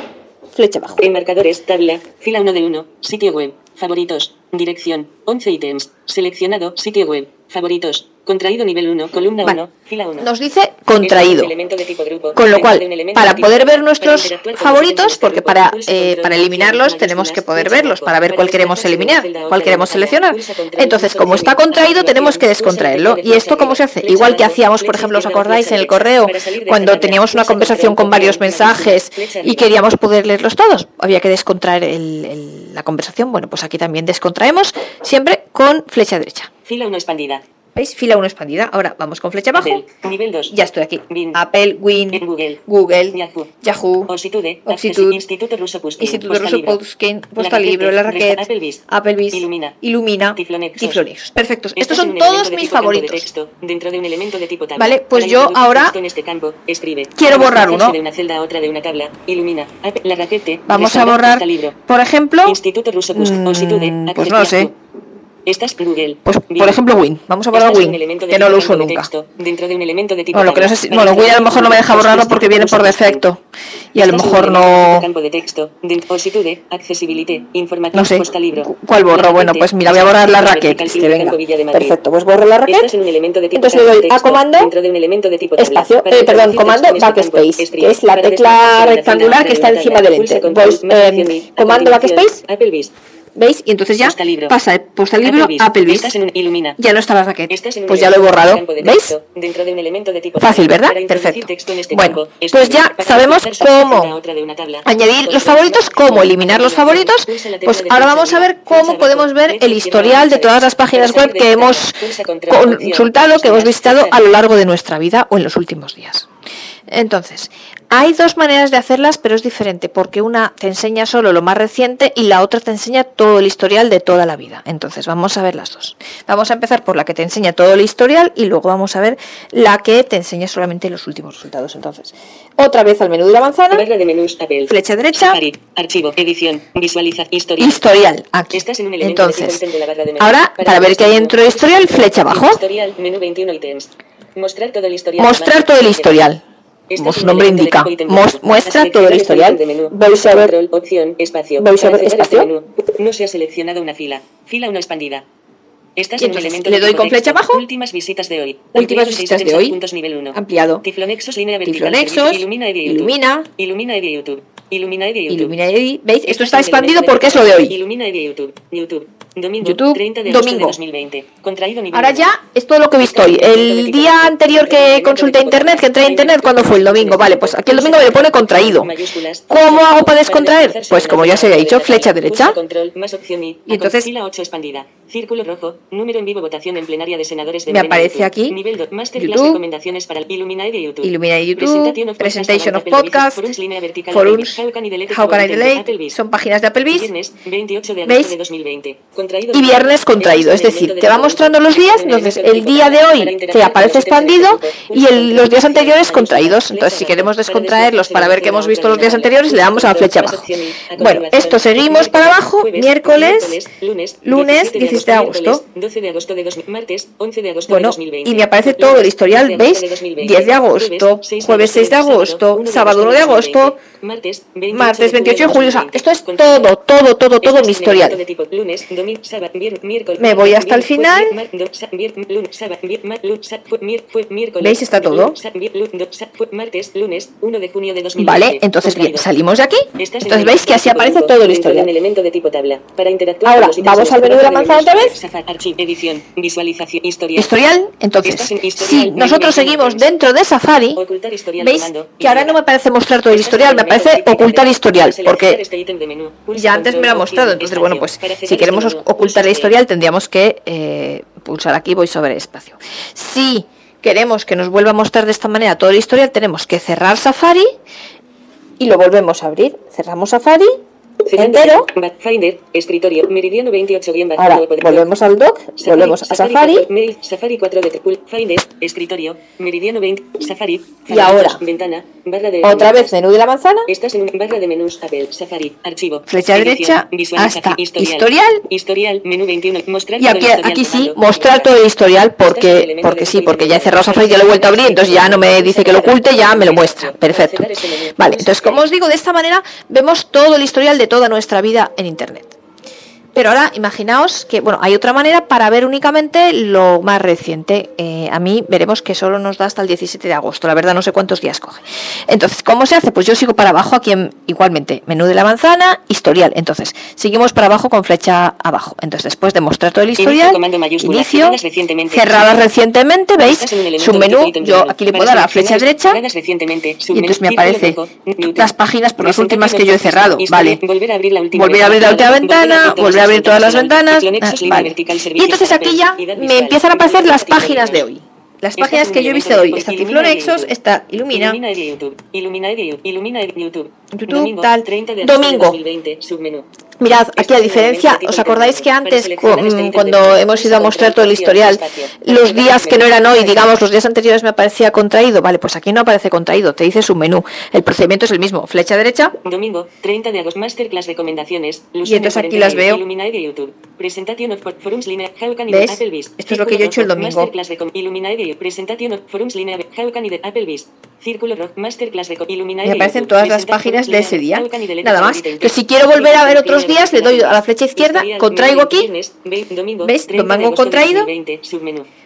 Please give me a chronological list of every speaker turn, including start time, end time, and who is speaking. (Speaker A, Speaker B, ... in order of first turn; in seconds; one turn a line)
Speaker A: 0.5-1.0
Speaker B: 1.0-10.3
Speaker A: 10.2-11.5
Speaker B: 11.0-29.7
Speaker A: 12.3-36.5
Speaker B: 36.6-37.4
Speaker A: 37.7-39.8
Speaker B: 39.5-40.5
Speaker A: 40.5-44.1
Speaker B: 41.1-41.4
Speaker B: 42.1-43.5
Speaker B: 44.1-46.8
Speaker A: 44.6-45.2
Speaker A: 46.0-53.2
Speaker B: 47.4-49.8
Speaker B: 50.3-51.0
Speaker B: 51.8-61.8
Speaker A: 54.8-56.0
Speaker A: 57.1-58.0
Speaker A: 60.7-62.6
Speaker B: 62.4-64.7
Speaker A: 63.1-64.7
Speaker B: 65.4-66.8
Speaker A: 66.2-69.1
Speaker B: 67.5-73.2
Speaker A: 70.3-73.4
Speaker A: 73.9-75.1
Speaker B: 74.0-82.0
Speaker A: 77.9-82.9
Speaker B: 82.7-92.9
Speaker A: 83.5-84.7
Speaker A: 85.5-92.4
Speaker A: 93.3-96.1
Speaker B: 94.0-94.5
Speaker B: 95.2-96.8
Speaker A: 96.8-99.2
Speaker B: 97.5-114.2
Speaker A: 100.4-104.2
Speaker A: 104.8-116.3
Speaker A: 116.9-133.8
Speaker B: 133.7-137.8
Speaker A: 134.7-135.4
Speaker A: 137.6-139.6
Speaker B: 138.5-146.3
Speaker A: 140.2-142.6
Speaker A: 145.2-146.4
Speaker B: 146.9-155.2
Speaker A: 146.9-150.6
Speaker A: 151.6-152.5
Speaker B: 155.9-165.6
Speaker A: 156.2-157.6
Speaker A: 158.7-159.8
Speaker A: 160.3-160.8
Speaker A: 161.6-163.5
Speaker A: 165.3-167.8
Speaker B: 166.2-172.3
Speaker A: 169.6-170.8
Speaker A: 171.9-178.9
Speaker B: 173.0-196.2
Speaker A: 179.5-182.6
Speaker A: 183.7-184.1
Speaker A: 187.7-188.6
Speaker A: 189.2-189.6
Speaker A: 191.0-193.5
Speaker A: 194.1-197.1
Speaker B: 196.9-226.7
Speaker A: 198.0-198.3
Speaker A: 199.5-213.6
Speaker A: 214.2-215.6
Speaker A: 217.7-223.8
Speaker A: 224.7-228.2
Speaker B: 227.4-239.3
Speaker A: 230.2-231.4
Speaker A: 234.6-235.3
Speaker A: 238.2-241.9
Speaker B: 239.9-247.6
Speaker A: 243.4-245.2
Speaker A: 247.3-251.0
Speaker B: 248.2-250.1
Speaker B: 250.9-252.6
Speaker A: 251.6-255.6
Speaker B: 253.3-259.8
Speaker A: 256.5-267.7
Speaker A: 268.8-270.8
Speaker B: 271.3-275.1
Speaker A: 271.3-271.9
Speaker A: 274.4-276.9
Speaker B: 275.8-283.2
Speaker A: 281.1-281.6
Speaker A: 282.6-283.9
Speaker B: 283.9-291.7
Speaker A: 286.3-288.6
Speaker A: 290.2-297.6
Speaker B: 292.4-298.8
Speaker A: 298.2-302.6
Speaker A: 303.3-321.6
Speaker B: 320.2-322.7
Speaker A: 322.1-326.2
Speaker B: 323.4-338.1
Speaker A: 327.1-328.0
Speaker A: 328.5-330.8
Speaker A: 331.5-341.6
Speaker B: 338.8-340.7
Speaker B: 341.3-346.6
Speaker A: 344.1-345.8
Speaker A: 347.0-359.4
Speaker B: 347.3-353.7
Speaker B: 359.4-382.1
Speaker A: 362.0-363.0
Speaker A: 365.7-367.5
Speaker A: 372.8-379.1
Speaker A: 380.0-381.3